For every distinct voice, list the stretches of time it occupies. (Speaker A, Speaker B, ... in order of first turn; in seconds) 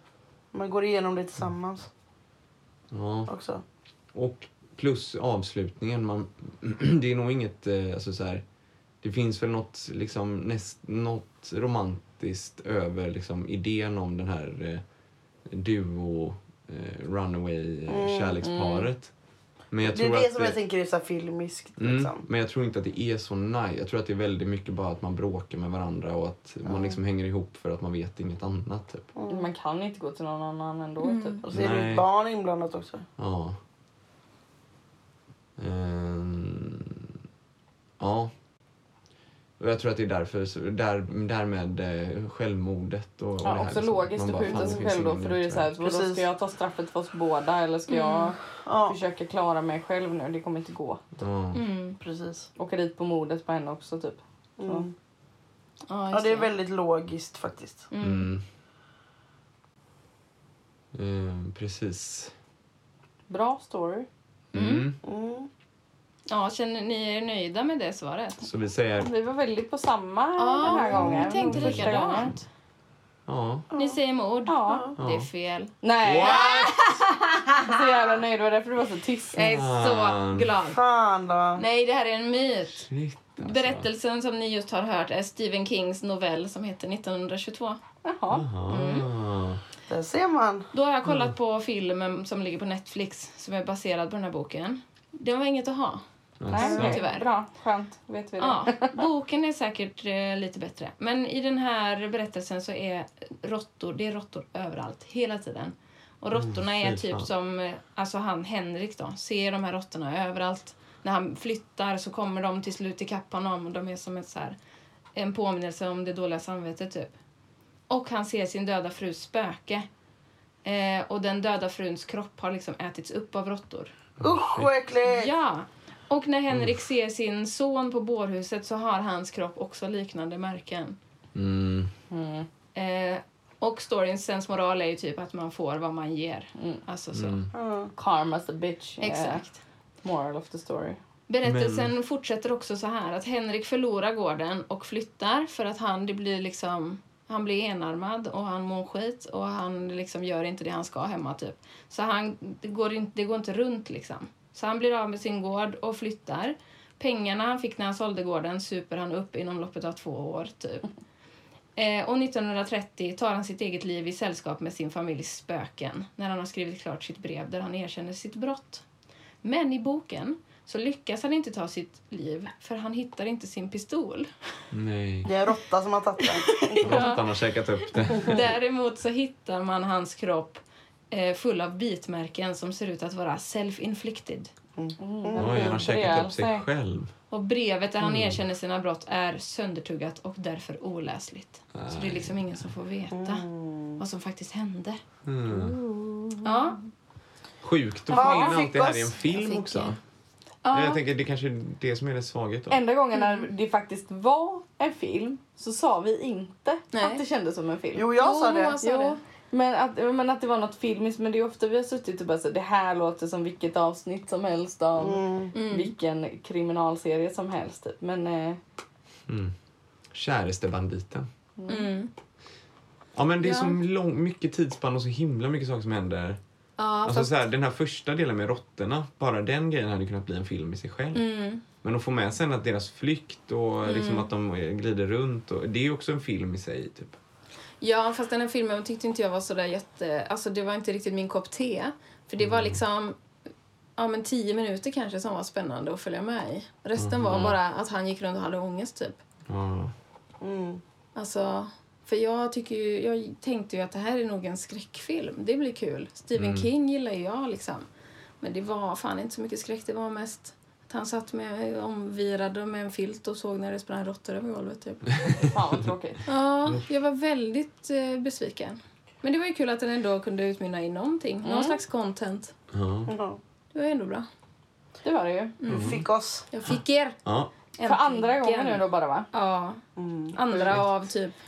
Speaker A: 0.5-1.9, 3.3-3.6, 17.9-18.4, 19.8-22.2, 26.6-27.0, 29.1-29.5, 31.4-33.0, 44.5-44.8, 45.8-46.2, 48.6-49.0, 52.0-52.5, 54.6-54.9, 56.1-57.9, 65.0-65.5, 70.6-71.3, 73.7-74.0, 74.7-74.9, 80.7-81.6, 89.9-90.7, 124.2-125.3, 137.5-137.9, 175.2-177.0, 184.8-185.8, 193.1-194.0, 198.1-199.3, 207.9-208.8, 215.0-215.5, 250.4-250.8, 273.1-273.4, 275.7-276.4, 279.9-280.4
Speaker B: 2.9-3.3, 4.1-8.4, 9.0-14.8, 15.5-19.1, 19.7-20.6, 21.8-29.1, 31.5-32.1, 33.2-33.6, 35.6-37.1, 38.0-38.3, 39.6-45.7, 51.2-51.6, 58.0-58.4, 60.9-62.3, 64.5-65.0, 68.4-69.1, 71.3-72.3, 73.3-73.7, 75.0-75.3, 76.0-76.8, 79.4-80.5, 82.8-83.9, 88.3-89.6, 91.0-91.3, 96.4-97.0, 106.3-107.3, 124.2-124.7, 131.3-131.9, 137.1-137.5, 141.4-141.9, 174.7-175.3, 176.8-178.4, 185.3-187.1, 188.0-188.4, 191.7-192.4, 195.2-195.8, 197.6-200.0, 200.7-202.8, 219.3-219.5, 220.1-221.3, 223.1-226.4, 227.0-231.2, 231.8-237.2, 242.4-242.8, 247.0-247.6, 249.5-249.9, 256.3-256.7, 272.7-273.1, 275.7-276.0, 277.2-277.5
Speaker C: 18.4-18.9, 29.3-31.4, 43.4-51.0, 52.6-54.9, 63.3-64.1, 69.0-72.3, 74.5-74.9, 75.8-76.6, 77.6-79.4, 88.0-88.8, 96.5-99.0, 132.1-132.5, 137.9-139.4, 140.0-141.0, 185.0-186.7, 195.5-196.7, 198.1-198.6, 202.7-208.2, 208.8-218.6, 221.6-221.9, 265.4-266.2, 271.4-271.8, 275.0-275.6, 277.8-279.3
Speaker D: 31.0-31.4, 47.9-48.3, 51.5-52.0, 55.9-56.5, 57.9-58.3, 64.5-64.9, 66.3-68.4, 70.4-72.4, 73.7-77.7, 79.3-80.8, 81.5-87.8, 88.7-89.1, 90.7-96.0, 96.5-97.3, 98.4-114.6, 115.2-117.1, 117.9-119.9, 120.6-123.9, 125.0-131.0, 132.7-137.4, 139.0-139.6, 141.3-160.9, 161.8-168.8, 169.4-174.3, 176.5-177.2, 178.1-184.5, 187.3-193.4, 194.0-195.0, 196.4-196.8, 198.1-198.4, 199.3-199.9, 200.6-201.0, 203.1-203.4, 206.9-207.2, 208.2-209.2, 215.5-215.9, 221.7-222.1, 223.4-223.8, 226.8-227.5, 231.1-231.6, 233.8-234.3, 237.8-243.2, 244.0-249.2, 251.2-257.9, 258.4-265.1, 266.2-272.5, 273.7-274.2, 275.6-277.2, 277.8-279.8, 280.3-281.4